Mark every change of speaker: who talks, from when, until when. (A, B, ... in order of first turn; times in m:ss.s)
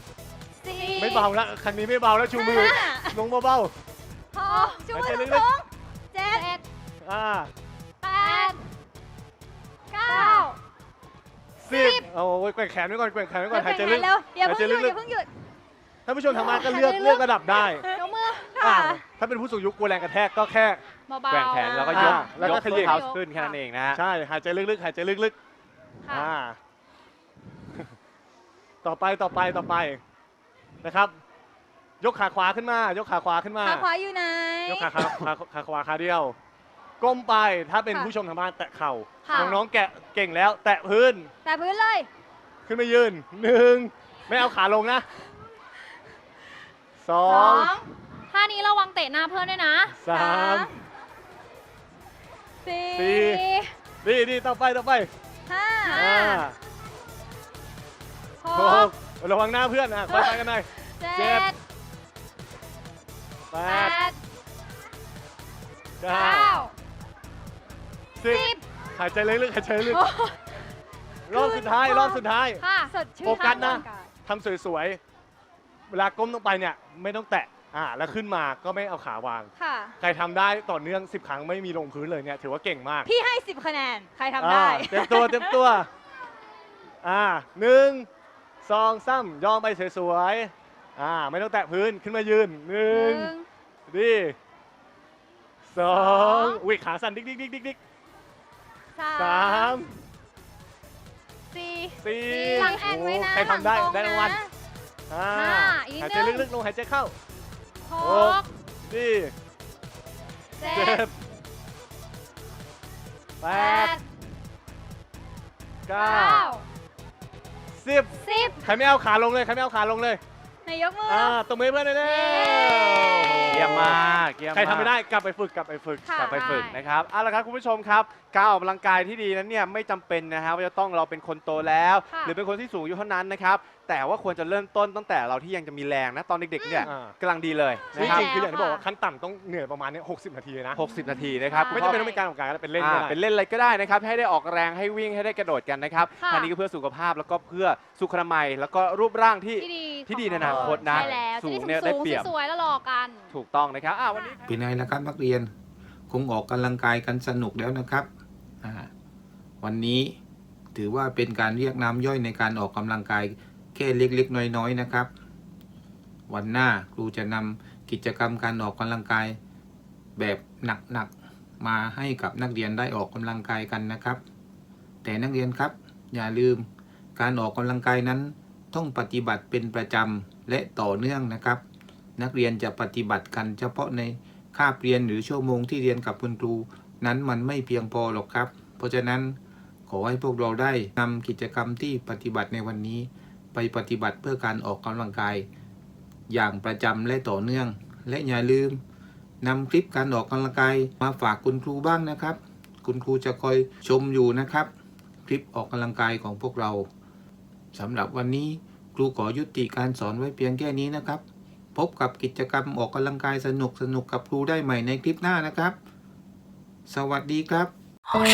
0:00.6-0:01.3 A
0:00.7-0:01.2 B
0:01.0-0:03.8 C
0:02.3-0:03.2 A
0:04.3-0:06.5 A
0:04.5-0:04.8 B
0:04.9-0:05.5 C
0:06.3-0:06.6 B
0:07.0-0:07.5 C
0:08.0-0:08.6 A
0:08.2-0:08.6 B
0:09.9-0:10.6 B
0:10.0-0:10.5 A
0:11.6-0:15.0 C
0:11.7-0:12.1 A
0:13.5-0:15.3 A
0:16.1-0:17.9 C
0:16.3-0:19.0 A
0:16.5-0:17.2 B
0:17.9-0:18.6 B
0:18.6-0:20.8 C
0:21.1-0:23.6 B
0:21.3-0:24.0 D
0:21.9-0:23.0 C
0:22.0-0:22.3 A
0:23.9-0:25.4 C
0:26.0-0:26.3 B
0:26.1-0:26.6 C
0:28.8-0:30.0 C
0:30.8-0:31.2 C
0:32.0-0:33.9 C
0:33.6-0:35.0 A
0:34.7-0:36.4 C
0:37.0-0:41.3 C
0:39.2-0:39.6 B
0:39.3-0:39.6 A
0:41.4-0:42.1 A
0:42.7-0:45.1 C
0:47.0-0:47.7 C
0:47.2-0:47.9 A
0:47.3-0:47.7 B
0:48.3-0:50.0 B
0:49.9-0:50.8 C
0:50.1-0:50.8 A
0:52.6-0:53.2 A
0:52.9-0:53.4 C
0:53.2-0:53.7 B
0:54.0-0:55.1 C
0:55.5-0:56.5 A
0:55.9-0:56.6 C
0:58.4-0:58.8 A
0:58.5-1:01.6 C
1:01.2-1:01.5 A
1:03.5-1:04.0 C
1:03.7-1:04.2 B
1:03.8-1:04.1 A
1:06.0-1:06.6 C
1:06.1-1:06.7 B
1:08.2-1:10.1 C
1:08.3-1:08.6 B
1:11.3-1:12.6 C
1:11.3-1:12.2 A
1:12.6-1:13.8 B
1:12.9-1:14.1 A
1:13.2-1:15.0 C
1:15.9-1:23.1 C
1:19.6-1:20.0 A
1:23.0-1:25.8 A
1:24.4-1:25.9 C
1:27.0-1:28.1 C
1:28.6-1:33.3 C
1:32.9-1:33.5 B
1:33.9-1:34.4 C
1:35.6-1:37.8 C
1:39.0-1:39.9 A
1:39.2-1:39.9 C
1:41.5-1:42.8 B
1:42.0-1:44.4 C
1:42.3-1:44.5 A
1:45.1-1:47.2 C
1:45.3-1:46.5 B
1:47.9-1:48.2 A
1:47.9-1:48.5 B
1:48.0-1:49.3 C
1:50.6-1:51.1 B
1:50.6-1:51.2 C
1:53.4-1:54.0 C
1:53.5-1:54.0 A
1:55.9-1:56.5 C
1:56.0-1:56.6 B
1:56.1-1:56.5 A
1:57.7-2:00.2 C
2:00.7-2:01.4 A
2:01.1-2:06.2 C
2:02.0-2:02.5 B
2:02.2-2:03.6 A
2:03.5-2:04.9 D
2:06.1-2:06.6 A
2:06.2-2:18.4 D
2:06.2-2:06.8 B
2:12.1-2:12.3 B
2:16.6-2:16.9 B
2:16.8-2:17.2 C
2:17.9-2:20.8 C
2:18.0-2:18.8 B
2:20.8-2:22.1 D
2:20.8-2:22.2 B
2:21.7-2:23.2 C
2:22.8-2:32.3 D
2:26.2-2:26.5 B
2:29.6-2:33.3 B
2:33.3-2:34.4 D
2:34.5-2:35.5 E
2:36.1-2:38.1 E
2:38.6-2:38.9 E
2:39.6-2:40.2 E
2:40.7-2:45.1 E
2:46.3-2:49.4 E
2:50.2-2:54.2 E
2:55.0-2:56.6 E
2:57.2-3:01.6 E
3:02.2-3:09.4 E
3:09.9-3:15.5 E
3:16.3-3:18.8 E
3:19.4-3:24.7 E
3:25.3-3:26.9 E
3:27.7-3:31.2 E
3:31.8-3:35.8 E
3:36.9-3:37.7 E